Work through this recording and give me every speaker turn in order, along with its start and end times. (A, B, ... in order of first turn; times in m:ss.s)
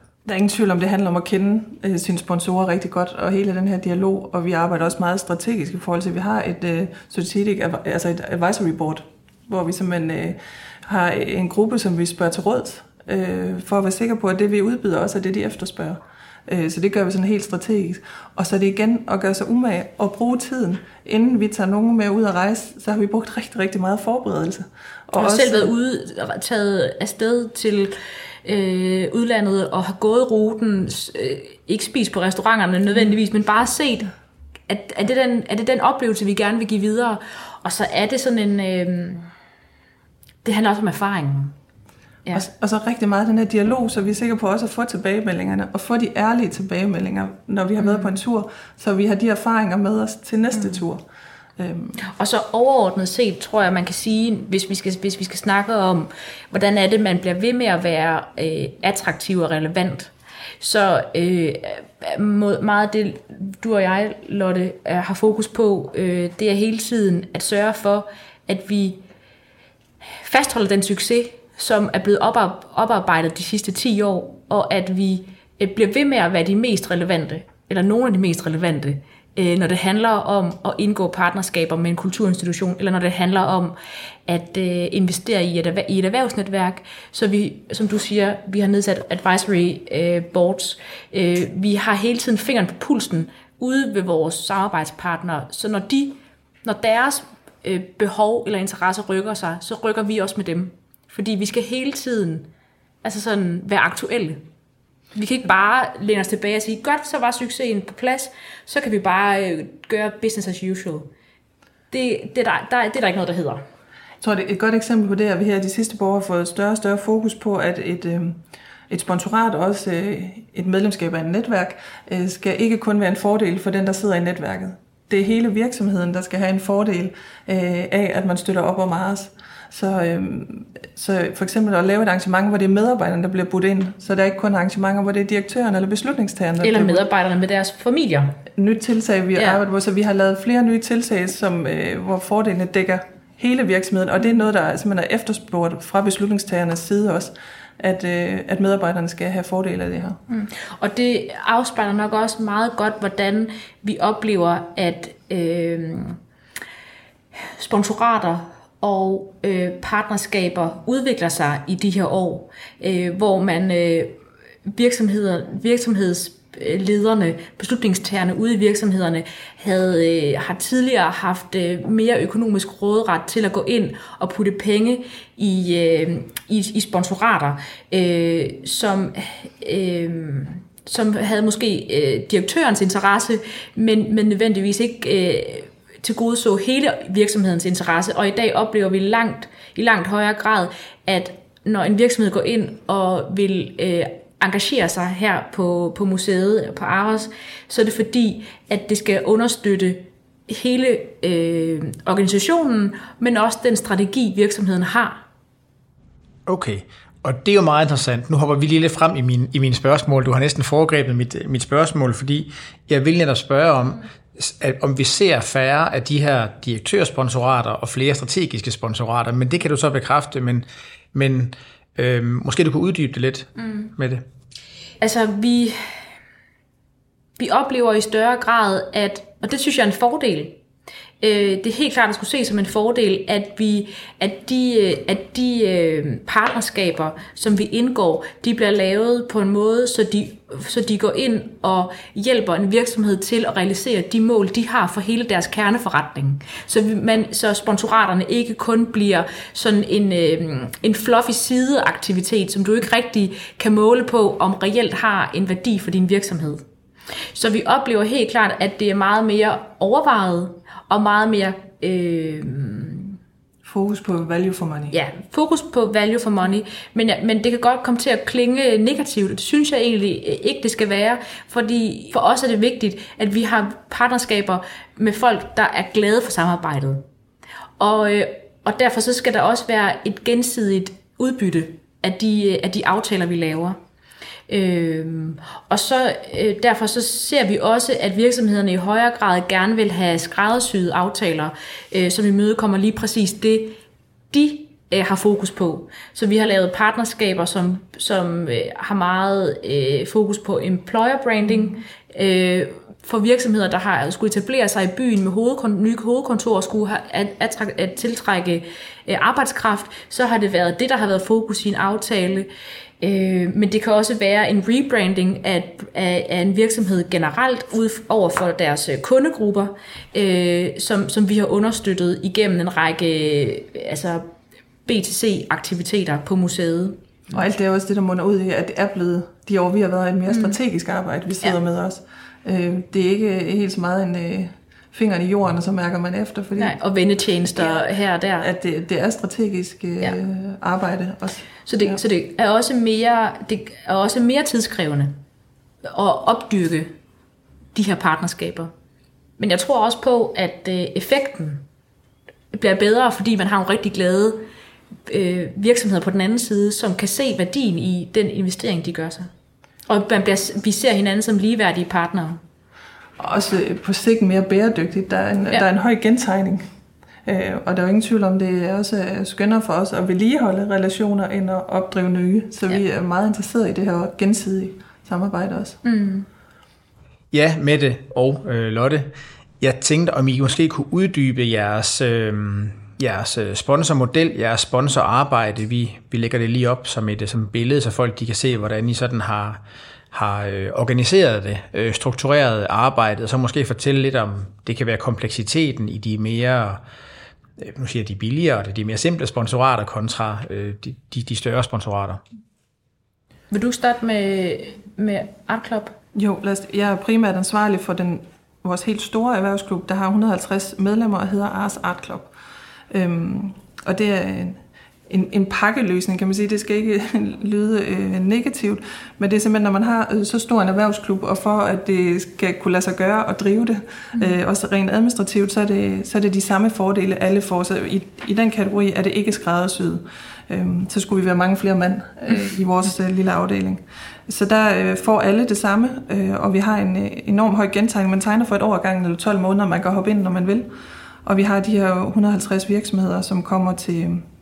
0:00.2-0:25.7 A
0:25.2-0:34.1 B
0:34.7-0:39.3 B
0:40.4-0:41.6 B
0:42.3-0:51.0 A
0:47.8-0:48.2 B
0:50.5-0:50.8 B
0:51.6-0:52.0 A
0:52.0-1:09.0 B
1:10.2-1:23.8 B
1:24.3-1:42.5 B
1:43.0-1:44.4 B
1:45.2-1:51.1 B
1:51.9-1:53.6 B
1:54.2-2:17.1 A
2:16.6-2:18.4 B
2:18.6-2:30.2 A
2:19.4-2:19.6 B
2:30.3-2:36.2 B
2:37.6-2:44.2 B
2:44.7-3:25.2 B
3:26.5-3:44.2 C
3:45.0-3:45.8 B
3:47.4-3:50.6 B
3:51.2-4:16.6 B
4:17.4-4:23.2 B
4:23.6-4:25.0 A
4:24.9-4:37.0 B
4:37.8-4:43.8 B
4:44.5-4:53.8 B
4:54.3-5:12.5 B
5:13.0-5:24.3 B
5:24.9-5:27.3 B
5:27.3-5:36.8 A
5:30.3-5:30.6 B
5:36.6-5:38.5 B
5:38.4-5:42.0 A
5:41.6-5:45.2 B
5:45.9-5:46.9 B
5:47.8-5:48.7 B
5:49.4-5:51.6 B
5:52.5-5:54.4 B
5:55.1-5:59.3 B
5:59.9-6:02.4 B
6:03.2-6:06.6 A
6:07.3-6:15.8 A
6:15.8-6:16.3 B
6:17.3-6:36.8 C
6:37.6-6:42.2 C
6:43.5-6:46.0 B
6:46.2-6:52.3 A
6:52.9-7:20.7 A
7:21.2-7:24.3 A